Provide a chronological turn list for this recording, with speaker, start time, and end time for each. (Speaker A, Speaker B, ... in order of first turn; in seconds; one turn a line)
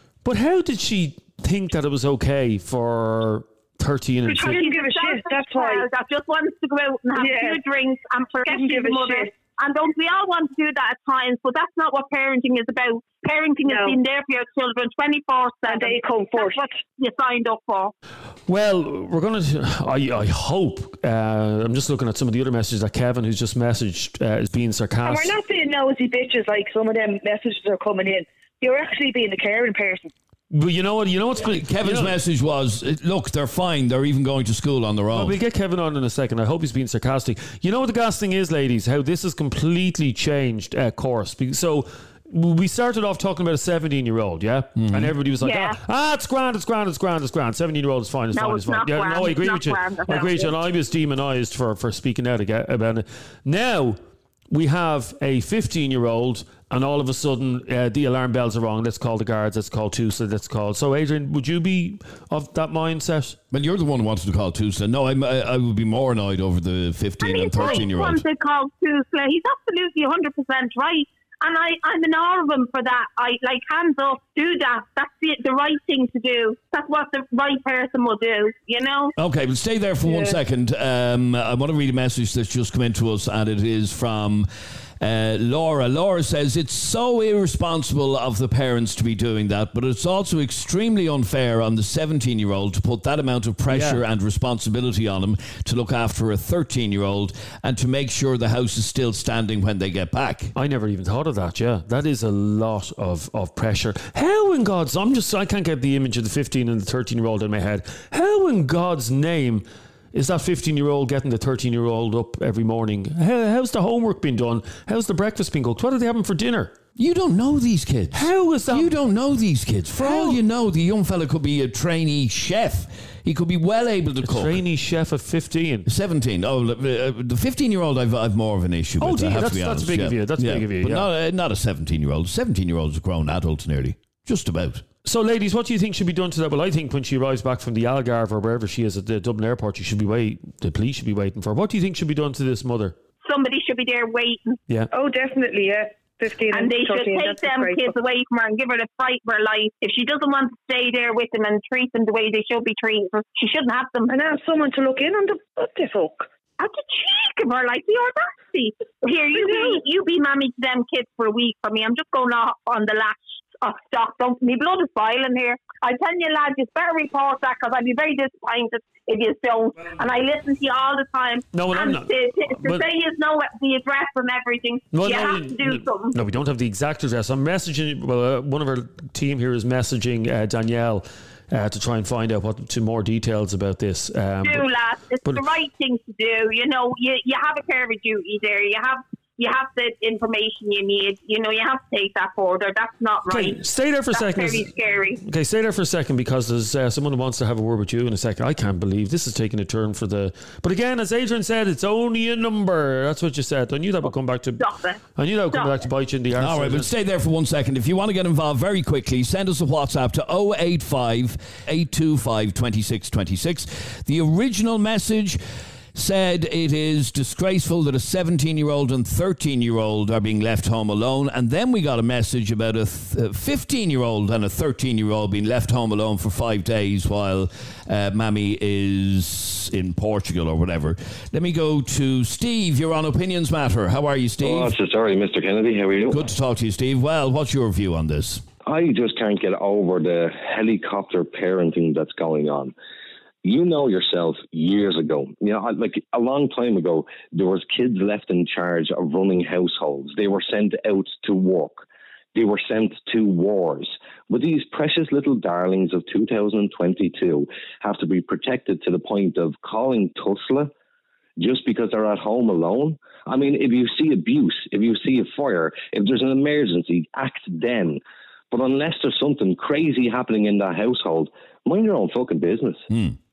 Speaker A: 0.2-4.6
Speaker B: 4.3-5.9
Speaker C: 4.3-17.9
Speaker B: 7.2-7.6
Speaker B: 8.5-9.3
Speaker B: 13.6-14.0
Speaker B: 15.7-16.7
Speaker A: 18.5-25.4
Speaker B: 25.0-30.1
Speaker A: 30.5-32.2
Speaker D: 31.4-35.4
Speaker A: 35.1-54.0
Speaker D: 44.8-45.1
Speaker C: 45.4-45.8
Speaker C: 48.3-50.5
Speaker A: 54.5-63.4
Speaker D: 63.5-68.2
Speaker C: 67.2-79.1
Speaker D: 79.2-84.5
Speaker B: 80.1-80.3
Speaker D: 85.0-100.5
Speaker A: 93.7-94.0
Speaker A: 100.6-116.8
Speaker D: 117.0-124.6
Speaker A: 118.1-119.0
Speaker A: 120.0-120.4
Speaker A: 124.2-125.9
Speaker D: 125.9-134.8
Speaker A: 129.0-131.1
Speaker A: 135.1-143.0
Speaker C: 143.2-144.6
Speaker B: 144.9-147.9
Speaker C: 146.5-154.2
Speaker B: 154.1-156.3
Speaker C: 156.6-176.2
Speaker B: 159.3-159.8
Speaker A: 171.5-172.8
Speaker A: 174.9-184.7
Speaker C: 184.4-193.6
Speaker A: 193.3-206.9
Speaker C: 194.1-195.2
Speaker C: 204.6-205.0
Speaker D: 206.4-215.4
Speaker D: 215.9-234.8
Speaker E: 234.4-236.2
Speaker D: 236.1-238.4
Speaker E: 238.7-242.7
Speaker E: 243.4-260.7
Speaker E: 261.4-272.9
Speaker D: 272.9-273.2